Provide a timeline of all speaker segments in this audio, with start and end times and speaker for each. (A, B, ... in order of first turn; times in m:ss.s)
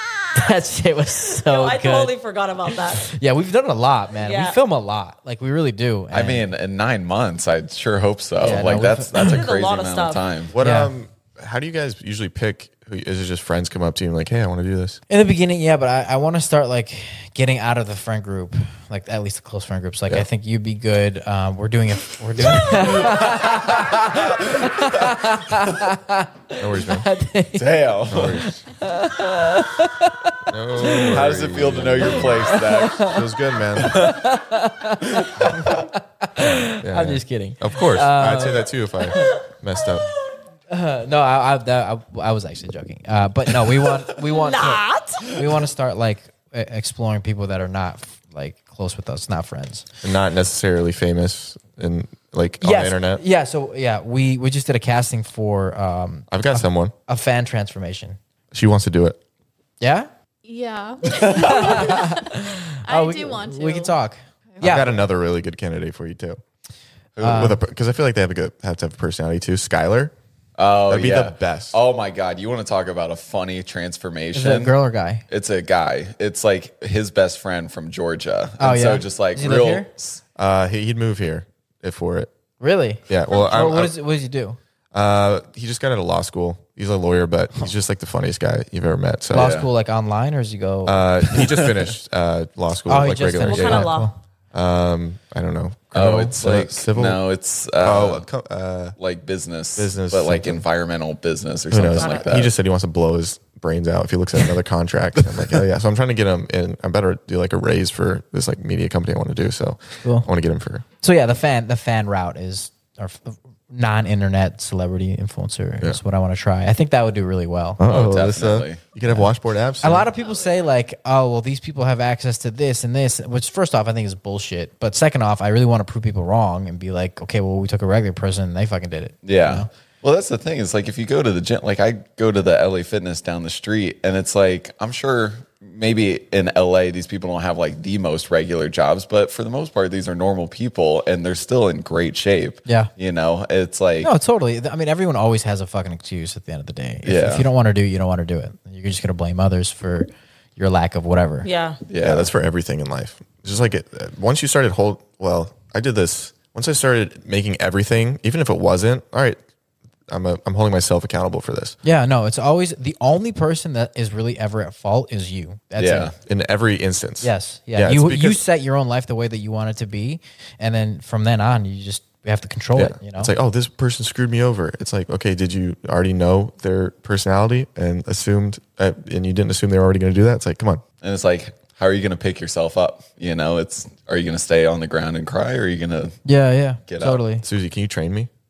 0:00.3-0:02.1 A
0:01.4-0:03.0 B
0:02.9-0:06.5 A
0:04.2-0:04.6 B
0:06.1-0:10.5 C
0:08.4-0:09.4 A
0:09.1-0:10.2 B
0:10.5-0:15.0 D
0:10.6-0:10.9 A
0:15.1-0:31.3 A
0:22.6-0:25.2 C
0:26.6-0:27.1 D
0:27.5-0:28.5 C
0:28.1-0:28.6 D
0:30.5-0:34.1 D
0:30.9-0:33.2 C
0:32.0-0:39.3 A
0:33.8-0:34.2 C
0:36.8-0:40.1 D
0:40.7-0:49.9 A
0:44.3-0:45.2 B
0:45.3-0:45.6 C
0:50.0-0:53.2 D
0:52.6-0:58.2 A
0:56.3-0:56.9 D
0:58.5-0:59.2 D
0:59.8-1:00.1 A
1:00.4-1:02.3 E
1:01.1-1:05.0 A
1:02.8-1:03.9 E
1:04.5-1:04.8 E
1:04.6-1:06.4 D
1:07.2-1:10.1 D
1:07.2-1:07.6 A
1:10.6-1:14.8 C
1:10.9-1:11.8 D
1:14.3-1:15.2 A
1:15.3-1:20.2 C
1:18.6-1:19.9 A
1:20.4-1:22.3 D
1:22.6-1:24.6 A
1:23.1-1:23.9 D
1:24.9-1:29.6 D
1:29.3-1:31.1 A
1:29.3-1:29.7 C
1:30.8-1:34.0 D
1:31.3-1:31.9 C
1:32.9-1:34.2 A
1:33.4-1:34.1 B
1:34.5-1:37.2 D
1:35.9-1:38.2 C
1:37.8-1:39.0 D
1:39.0-1:42.5 C
1:39.8-1:40.6 D
1:41.7-1:50.8 D
1:42.0-1:42.3 B
1:51.0-1:57.8 A
1:57.8-2:00.1 D
1:57.9-1:58.8 C
1:59.8-2:09.7 A
2:09.2-2:24.1 C
2:22.6-2:22.9 A
2:24.0-2:31.5 A
2:27.0-2:27.5 C
2:31.4-2:31.8 B
2:31.9-2:32.3 C
2:32.0-2:39.4 D
2:40.1-2:41.8 D
2:41.8-2:46.1 A
2:45.8-2:46.1 C
2:46.2-2:48.4 D
2:47.2-2:53.3 A
2:52.8-3:00.8 D
3:01.0-3:06.2 C
3:06.2-3:07.4 A
3:06.9-3:07.2 C
3:07.4-3:08.3 D